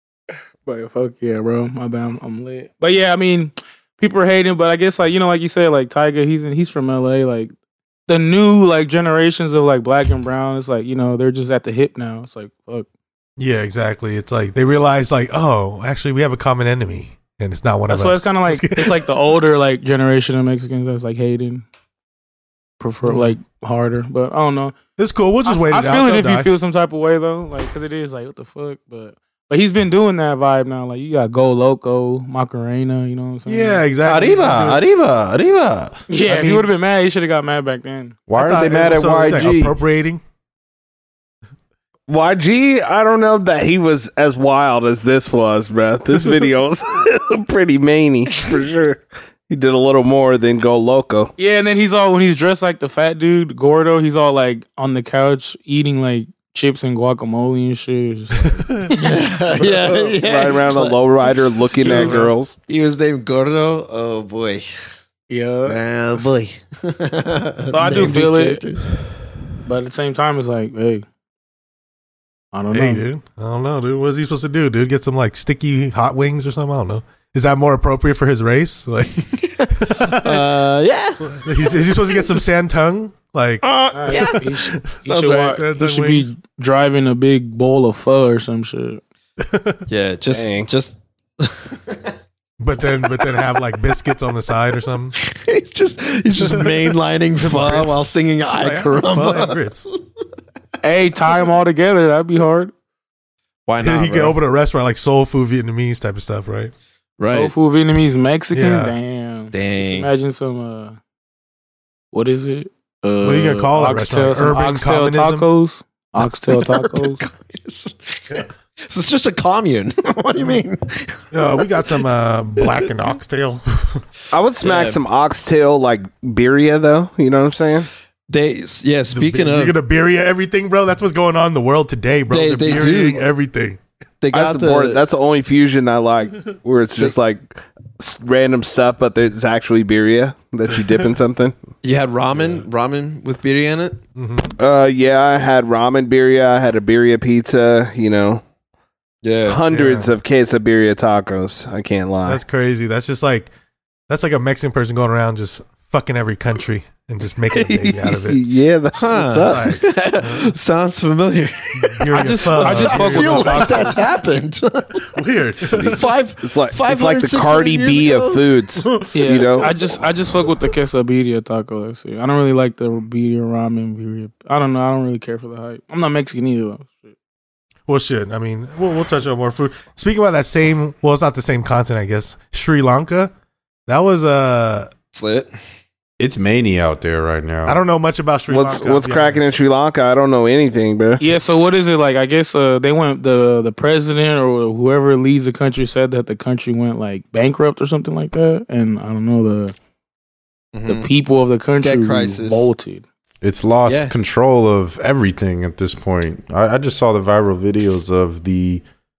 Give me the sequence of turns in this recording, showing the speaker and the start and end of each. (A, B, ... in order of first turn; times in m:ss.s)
0:00.6-0:07.5 A
0:08.1-0:12.9 A
0:13.4-0:19.2 B
0:17.9-0:21.6 A
0:22.8-0:24.8 A
0:23.0-0:23.3 B
0:25.0-0:26.5 B
0:25.4-0:33.8 A
0:33.5-0:34.8 B
0:34.0-0:36.7 C
0:34.6-0:34.8 D
0:36.1-0:38.2 A
0:38.3-0:39.8 C
0:38.3-0:40.2 B
0:42.1-0:51.3 E
0:51.4-0:59.2 A
0:58.4-0:59.1 B
0:59.0-1:04.6 D
0:59.6-1:02.6 E
1:00.2-1:00.7 A
1:01.8-1:02.3 B
1:01.8-1:02.2 A
1:05.3-1:05.8 A
1:05.7-1:08.9 D
1:07.7-1:08.6 A
1:09.6-1:11.0 A
1:12.5-1:13.1 A
1:12.7-1:19.2 B
1:19.8-1:20.5 B
1:19.9-1:22.5 D
1:21.3-1:26.3 B
1:23.6-1:24.4 D
1:23.9-1:29.0 A
1:29.4-1:29.8 B
1:29.9-1:32.1 D
1:30.3-1:30.7 E
1:32.6-1:35.1 B
1:35.2-1:39.7 D
1:36.4-1:39.9 B
1:40.8-1:42.7 A
1:43.7-1:44.4 D
1:43.8-1:46.7 B
1:47.2-1:47.5 D
1:47.3-1:51.0 A
1:48.5-1:48.9 B
1:49.5-1:50.1 D
1:52.1-1:57.2 A
1:53.2-1:55.5 B
1:56.2-2:02.0 D
2:01.3-2:04.0 B
2:04.3-2:07.9 E
2:04.6-2:05.0 D
2:08.3-2:09.8 D
2:09.1-2:13.8 B
2:12.3-2:13.3 D
2:14.2-2:15.0 D
2:14.3-2:21.5 E
2:21.8-2:24.0 D
2:22.4-2:22.6 B
2:24.2-2:24.6 B
2:24.6-2:28.4 E
2:29.2-2:30.0 D
2:29.4-2:32.4 E
2:29.8-2:30.1 B
2:32.2-2:33.5 B
2:34.1-2:38.4 B
2:37.5-2:39.8 E
2:39.0-2:48.5 D
2:39.5-2:40.4 B
2:41.8-2:43.9 B
2:42.1-2:44.0 A
2:45.1-2:46.1 B
2:46.4-2:49.8 E
2:48.8-2:49.1 B
2:49.1-2:57.1 A
2:57.9-3:03.3 B
3:03.9-3:04.9 B
3:05.1-3:05.5 D
3:06.2-3:07.8 C
3:07.6-3:09.5 B
3:08.5-3:11.2 E
3:11.2-3:19.8 A
3:20.7-3:21.1 D
3:20.9-3:23.0 A
3:21.8-3:22.6 D
3:23.4-3:28.8 C
3:23.9-3:24.1 D